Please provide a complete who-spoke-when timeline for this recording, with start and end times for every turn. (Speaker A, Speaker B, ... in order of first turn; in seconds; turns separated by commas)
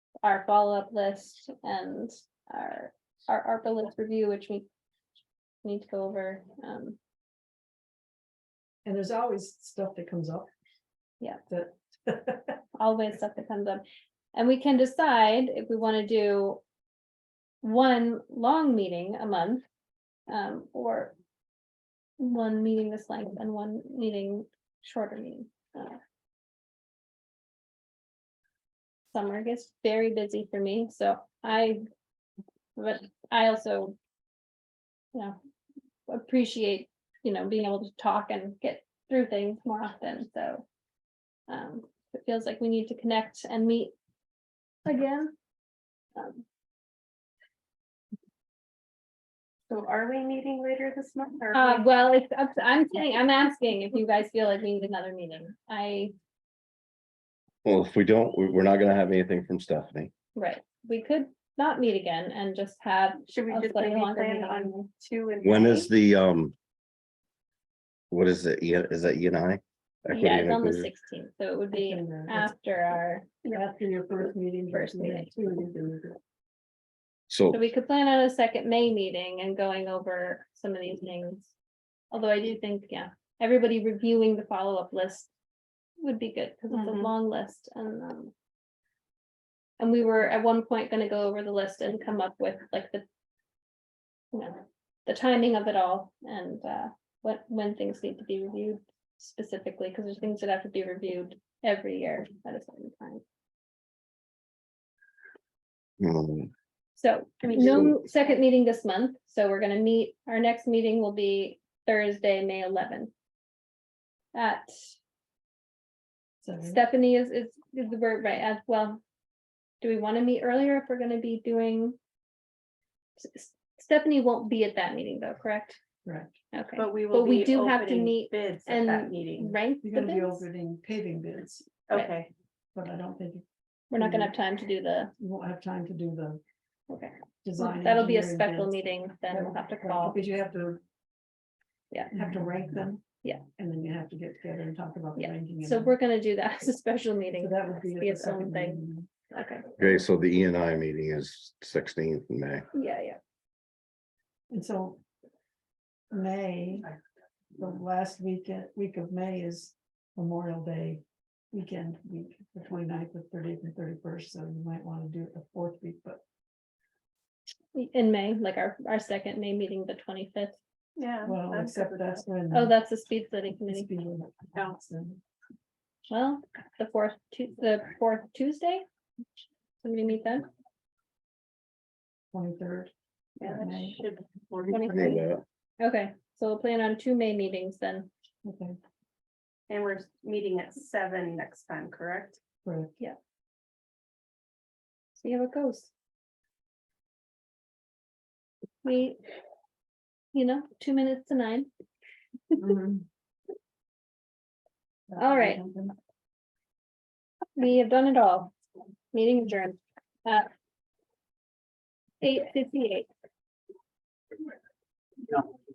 Speaker A: 0.2-4.7, Speaker A: 5.6-7.0, Speaker B: 8.8-10.5, Speaker B: 11.5-12.6, Speaker A: 12.7-13.8, Speaker A: 14.3-16.6, Speaker A: 17.6-19.6, Speaker A: 20.3-21.1, Speaker A: 22.2-26.0, Speaker A: 29.1-31.8, Speaker A: 32.8-34.0, Speaker A: 36.1-40.6, Speaker A: 41.5-43.9, Speaker A: 44.8-45.3, Speaker A: 46.1-46.4, Speaker C: 49.7-51.8, Speaker A: 51.5-56.1, Speaker D: 57.6-60.1, Speaker A: 60.3-64.9, Speaker C: 63.3-65.9, Speaker D: 65.4-66.5, Speaker D: 68.1-70.9, Speaker A: 70.1-73.4, Speaker B: 71.7-72.5, Speaker B: 73.5-76.2, Speaker A: 74.7-75.3, Speaker D: 77.3-77.6, Speaker A: 77.5-81.5, Speaker A: 82.1-85.3, Speaker A: 86.0-88.3, Speaker C: 86.7-87.1, Speaker A: 89.8-93.0, Speaker A: 94.3-103.2, Speaker D: 106.0-106.5, Speaker A: 107.0-113.1, Speaker C: 107.4-107.9, Speaker A: 114.3-114.8, Speaker B: 116.4-116.8, Speaker A: 116.6-119.0, Speaker A: 119.8-122.0, Speaker A: 123.2-125.8, Speaker B: 126.0-126.3, Speaker A: 126.5-130.4, Speaker C: 126.8-129.6, Speaker B: 129.8-131.8, Speaker C: 131.9-132.3, Speaker B: 132.7-134.3, Speaker A: 133.9-135.1, Speaker B: 135.2-136.4, Speaker A: 136.9-140.2, Speaker B: 137.4-138.7, Speaker B: 139.3-140.8, Speaker B: 142.1-143.0, Speaker B: 143.6-145.9, Speaker A: 145.2-150.0, Speaker B: 147.4-149.1, Speaker D: 149.8-152.6, Speaker A: 152.7-153.2, Speaker B: 154.5-155.0, Speaker B: 156.1-156.9, Speaker B: 157.6-166.2, Speaker A: 167.7-170.6, Speaker C: 171.0-172.2, Speaker B: 171.2-172.7, Speaker A: 172.5-173.9, Speaker B: 173.7-175.2, Speaker A: 176.1-178.8, Speaker A: 179.8-180.4, Speaker B: 182.3-182.9, Speaker C: 183.4-185.2, Speaker B: 183.4-184.0, Speaker A: 184.7-188.1, Speaker D: 184.9-185.4, Speaker B: 188.4-188.8, Speaker C: 189.7-192.4, Speaker B: 192.6-192.9, Speaker A: 195.2-195.9, Speaker A: 198.8-199.2, Speaker A: 200.3-201.7, Speaker B: 202.6-203.1, Speaker B: 205.1-205.9, Speaker A: 205.2-205.6, Speaker A: 207.6-208.5, Speaker A: 209.1-210.5, Speaker A: 212.2-213.1